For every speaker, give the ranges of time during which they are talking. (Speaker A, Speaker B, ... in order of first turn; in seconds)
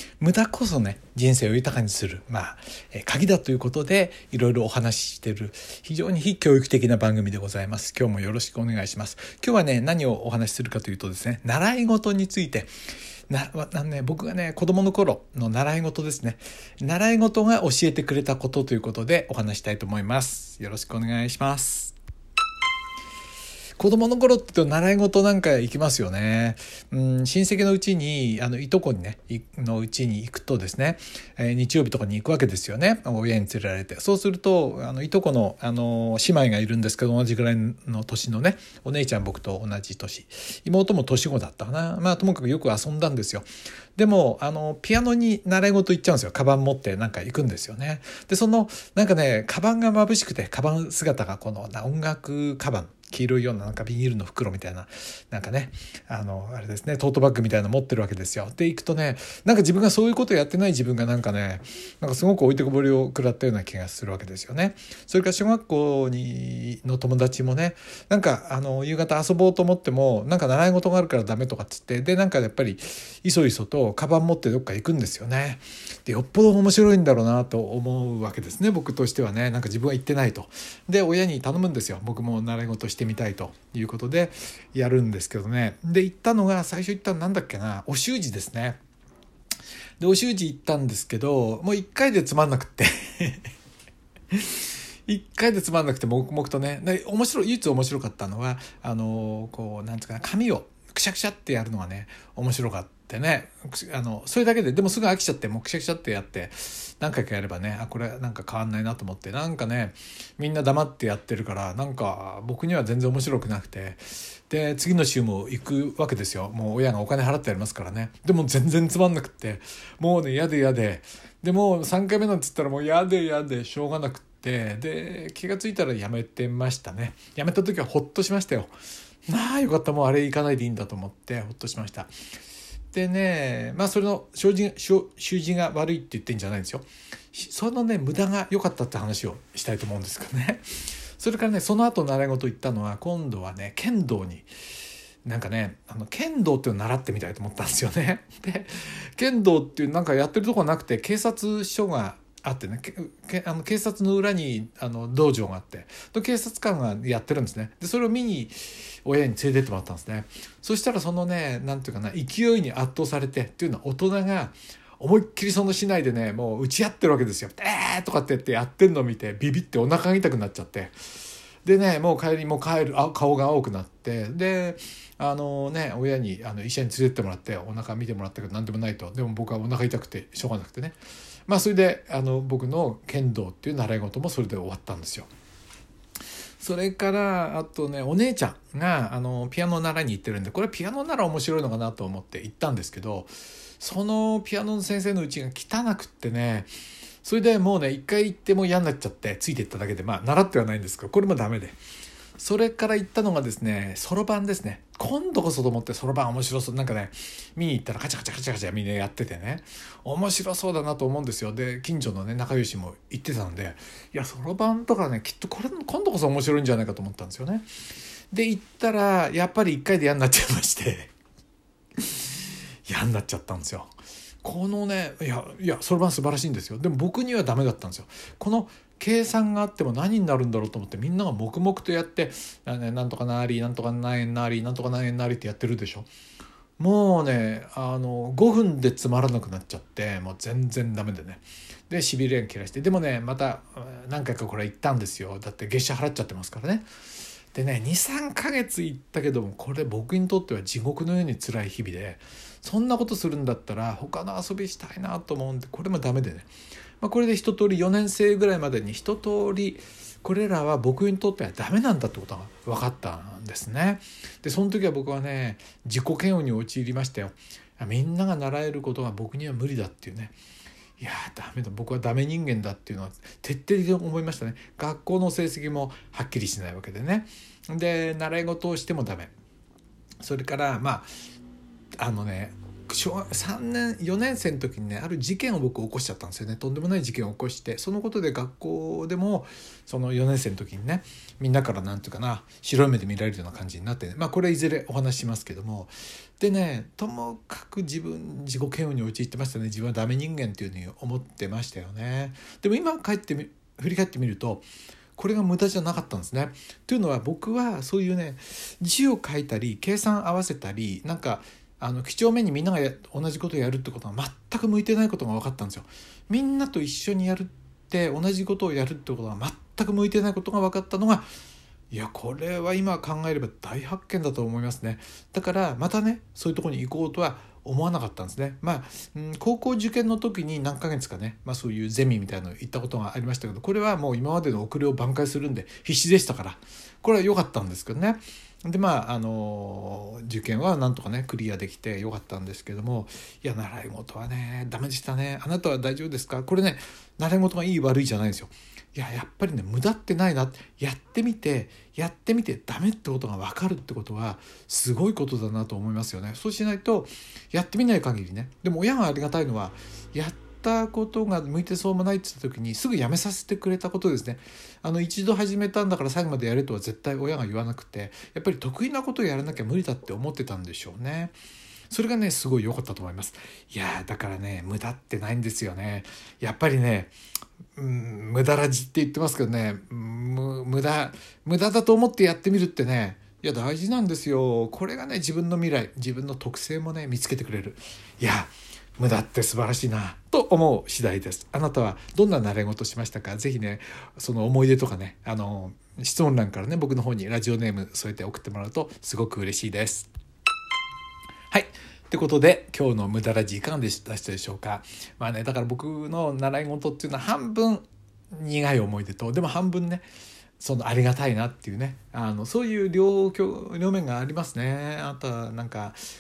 Speaker A: 0.2-12.7, 13.3-21.9, 23.8-88.8, 90.0-93.5, 94.3-128.7, 129.3-132.1, 132.9-140.7, 141.2-144.5, 145.2-170.9, 171.6-181.0, 181.5-185.3, 186.6-196.7, 197.2-201.8, 202.4-217.7, 218.3-221.1, 222.0-222.2, 222.9-223.9, 224.4-236.1, 236.8-246.9, 247.5-256.5, 257.0-270.3, 271.0-279.3, 280.2-281.1, 282.0-321.3, 321.9-371.3, 371.9-377.1, 377.8-400.1, 401.5-410.0, 410.6-416.0